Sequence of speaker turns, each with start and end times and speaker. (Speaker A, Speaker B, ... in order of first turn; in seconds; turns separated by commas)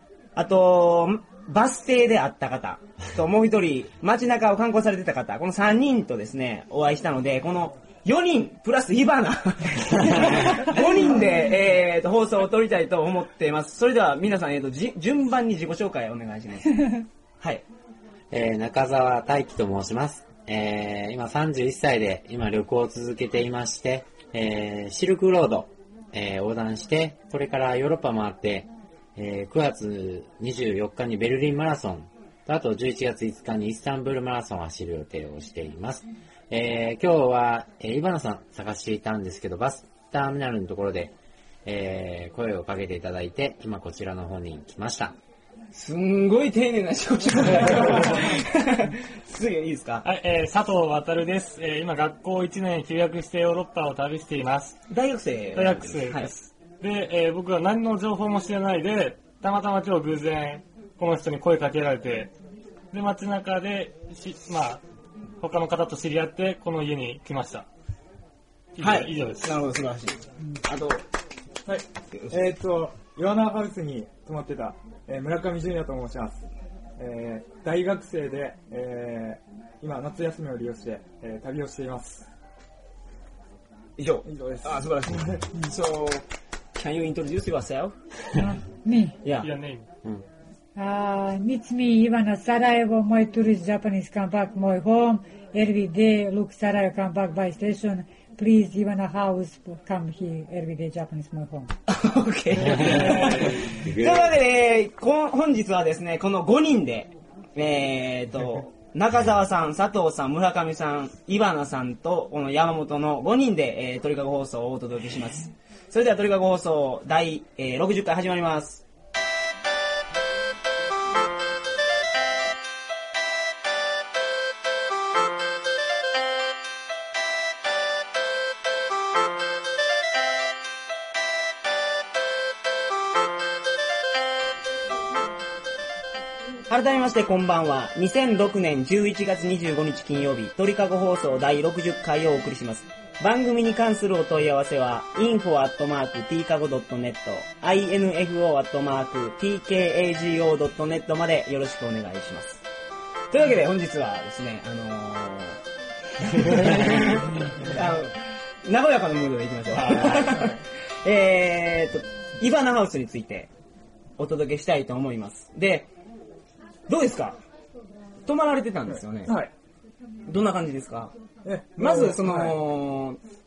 Speaker A: 0.4-17.6, Speaker B: 10.0-10.6, Speaker B: 18.3-41.1, Speaker B: 41.6-45.2, Speaker A: 45.7-50.1, Speaker C: 47.9-48.2, Speaker C: 50.0-54.9, Speaker A: 54.9-56.3, Speaker C: 55.5-62.3, Speaker C: 62.9-64.8, Speaker C: 65.4-67.7, Speaker C: 68.8-69.6, Speaker A: 68.8-71.0, Speaker D: 71.7-76.4, Speaker A: 72.1-72.5, Speaker D: 77.0-82.3, Speaker A: 84.0-88.0, Speaker D: 84.2-85.4, Speaker E: 88.3-89.2, Speaker A: 89.2-89.5, Speaker C: 89.4-89.9, Speaker E: 90.8-101.7, Speaker A: 101.9-118.8, Speaker B: 102.6-104.4, Speaker C: 102.7-103.7, Speaker A: 136.7-152.6, Speaker A: 153.3-155.6, Speaker A: 156.4-163.5, Speaker C: 156.5-156.8, Speaker C: 159.7-160.6, Speaker D: 160.1-160.6, Speaker A: 164.2-165.9, Speaker A: 166.9-167.4, Speaker A: 168.2-169.3, Speaker D: 168.9-169.5, Speaker A: 170.3-171.1, Speaker D: 171.4-172.6, Speaker A: 171.8-173.2